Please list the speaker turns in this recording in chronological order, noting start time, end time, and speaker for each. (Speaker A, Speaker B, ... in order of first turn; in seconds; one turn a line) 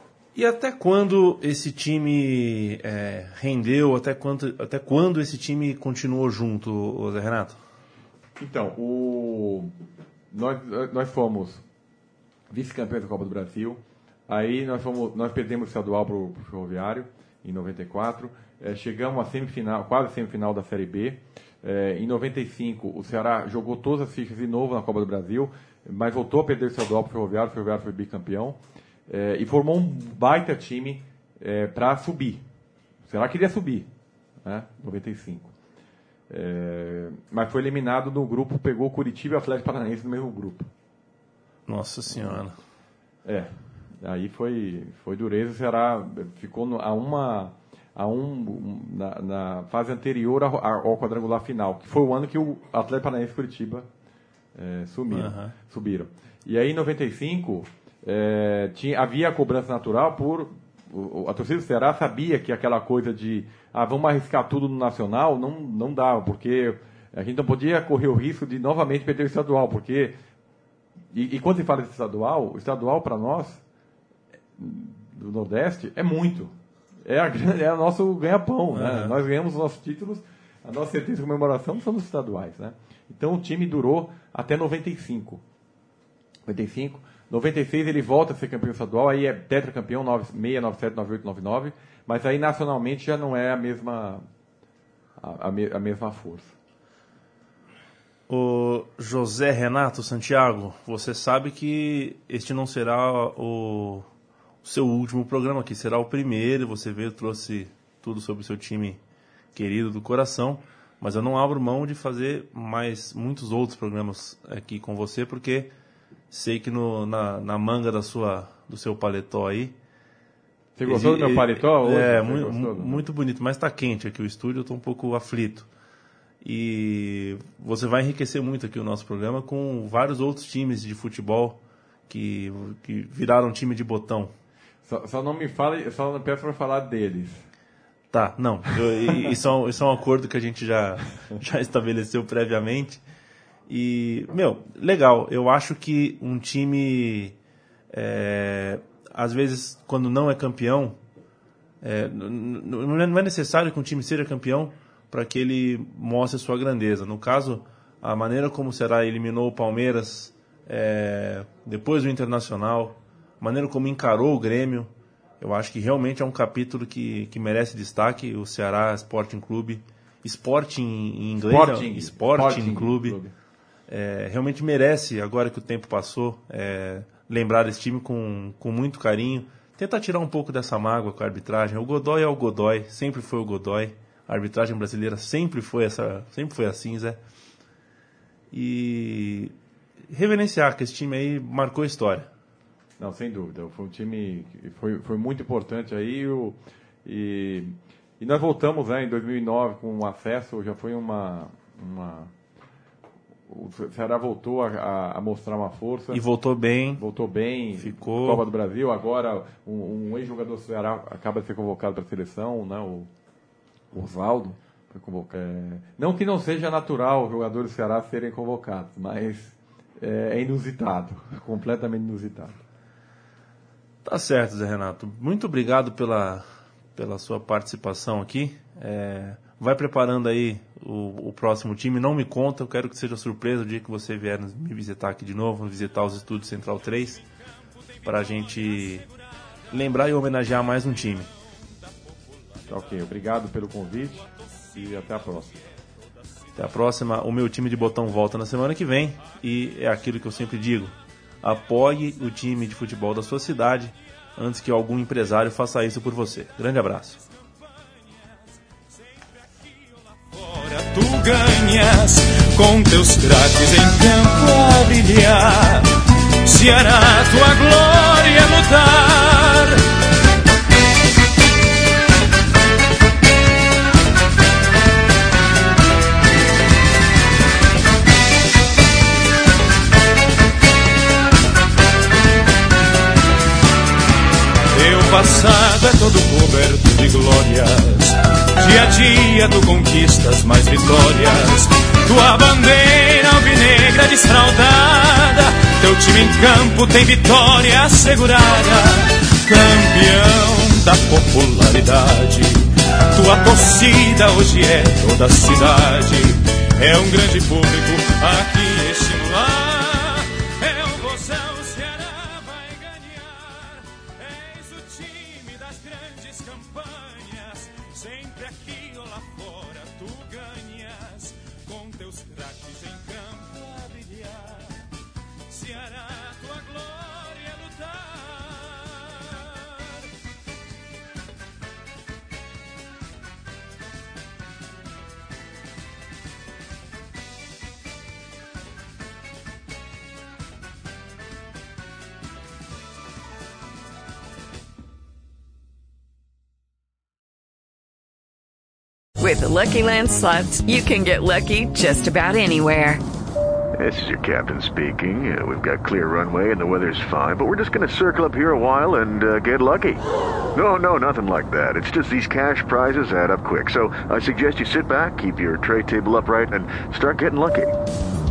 Speaker A: 0.3-7.6
Speaker B: 8.4-9.7
Speaker B: 10.3-11.6
Speaker B: 12.5-32.4
Speaker B: 33.1-33.9
Speaker B: 34.4-35.5
Speaker B: 36.3-40.7
Speaker A: 41.7-42.6
Speaker B: 43.2-43.5
Speaker B: 44.0-53.9
Speaker B: 54.5-70.2
Speaker A: 55.1-55.5
Speaker B: 71.1-73.6
Speaker B: 74.6-76.5
Speaker B: 77.0-85.4
Speaker A: 78.7-79.2
Speaker B: 86.5-94.2
Speaker B: 95.2-96.5
Speaker A: 98.3-104.1
Speaker A: 104.6-109.0
Speaker A: 109.5-115.7
Speaker A: 116.3-119.8
Speaker B: 120.8-123.0
Speaker A: 120.9-125.7
Speaker A: 126.4-134.3
Speaker B: 134.8-137.4
Speaker A: 138.1-143.0
Speaker A: 143.7-147.3
Speaker A: 147.9-151.0
Speaker A: 151.8-173.2
Speaker B: 171.4-173.3
Speaker A: 173.9-187.2
Speaker A: 188.5-189.5
Speaker A: 190.1-192.3
Speaker B: 193.0-202.3
Speaker B: 203.5-206.2
Speaker A: 206.1-207.0
Speaker B: 207.0-213.1
Speaker A: 207.8-208.4
Speaker B: 213.9-222.6
Speaker A: 224.0-237.2
Speaker A: 238.0-239.1
Speaker A: 239.7-241.3
Speaker B: 242.7-245.6
Speaker A: 246.6-257.2
Speaker C: 260.3-269.8
Speaker C: 284.7-324.9
Speaker C: 325.5-329.6
Speaker D: 349.2-353.0
Speaker E: 353.8-360.0
Speaker E: 360.6-367.7